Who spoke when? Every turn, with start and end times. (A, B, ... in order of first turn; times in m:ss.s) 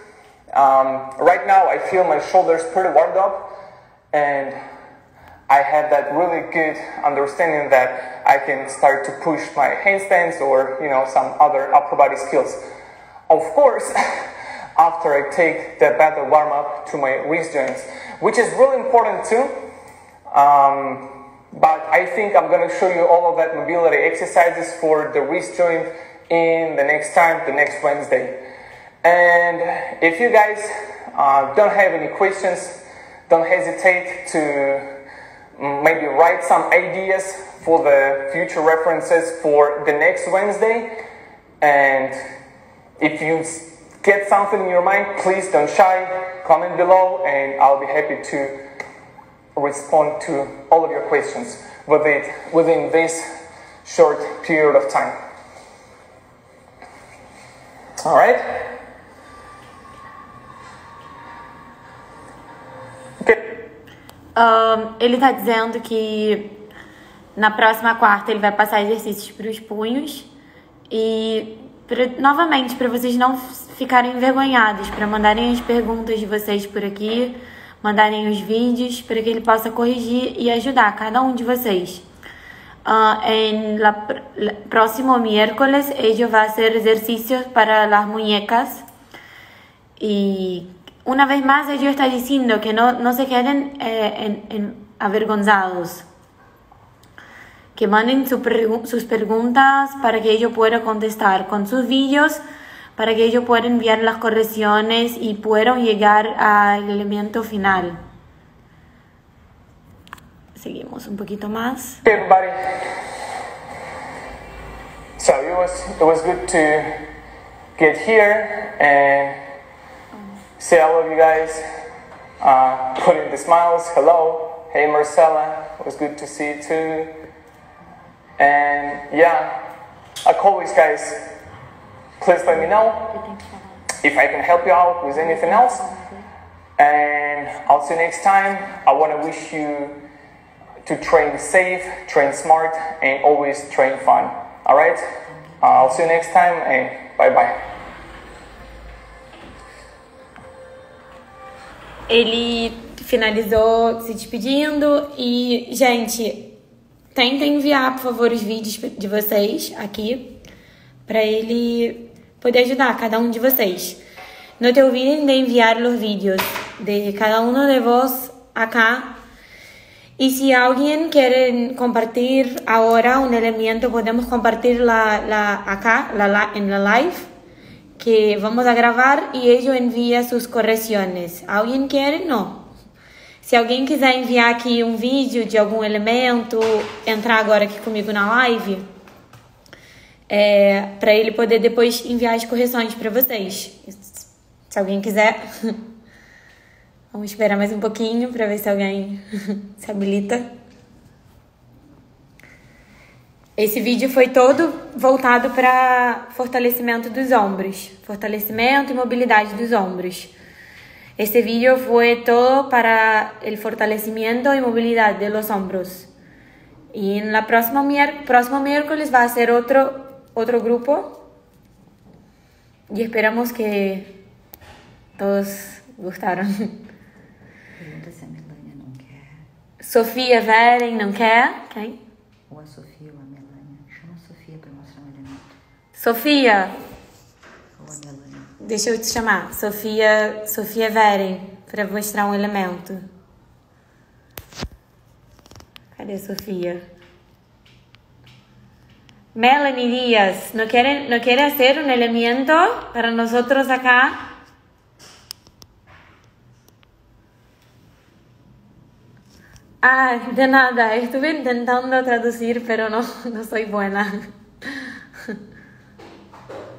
0:00.5-0:03.5 A
0:04.1-0:04.6 A
0:05.5-0:12.6 A
0:13.3-0:19.5 A
0:20.3-0:28.4 A
0:29.0-0:34.9 A
0:35.6-0:40.9 A
0:41.6-0:42.2 A
0:43.0-0:48.6 A
0:49.6-0:53.3 A
0:53.8-0:55.2 A
0:58.0-0:58.7 A
1:04.4-1:06.6 B
1:07.4-1:10.3 B
1:10.9-1:22.1 B
1:22.8-1:28.8 B
1:30.0-1:36.1 B
1:37.8-1:42.4 B
1:43.0-1:48.0 B
1:50.6-1:52.0 B
1:52.0-1:52.5 A
1:55.2-1:57.0 A
1:57.8-1:59.4 A
2:00.6-2:01.6 A
2:02.4-2:07.1 A
2:08.4-2:09.6 A
2:10.2-2:11.2 A
2:12.2-2:13.1 A
2:12.7-2:14.0 C
2:14.0-2:15.8 A
2:15.2-2:16.3 C
2:16.8-2:20.0 A
2:20.8-2:25.0 A
2:25.4-2:26.1 C
2:25.6-2:27.5 A
2:32.1-2:36.6 B
2:37.2-2:40.4 B
2:41.1-2:44.0 B
2:44.6-2:49.2 B
2:50.2-2:57.3 B
2:58.0-3:02.7 B
3:03.4-3:08.8 B
3:10.3-3:15.8 B
3:17.1-3:20.5 B
3:23.6-3:30.3 B
3:31.2-3:36.1 B
3:36.9-3:41.2 B
3:42.9-3:44.2 B
3:45.2-3:46.8 B
3:47.8-3:49.4 C
3:49.8-3:52.0 B
3:52.5-3:55.5 C
3:56.0-3:56.7 B
3:57.8-3:58.6 C
3:58.6-4:03.0 B
4:06.0-4:06.8 B
4:09.4-4:14.3 B
4:19.8-4:25.4 B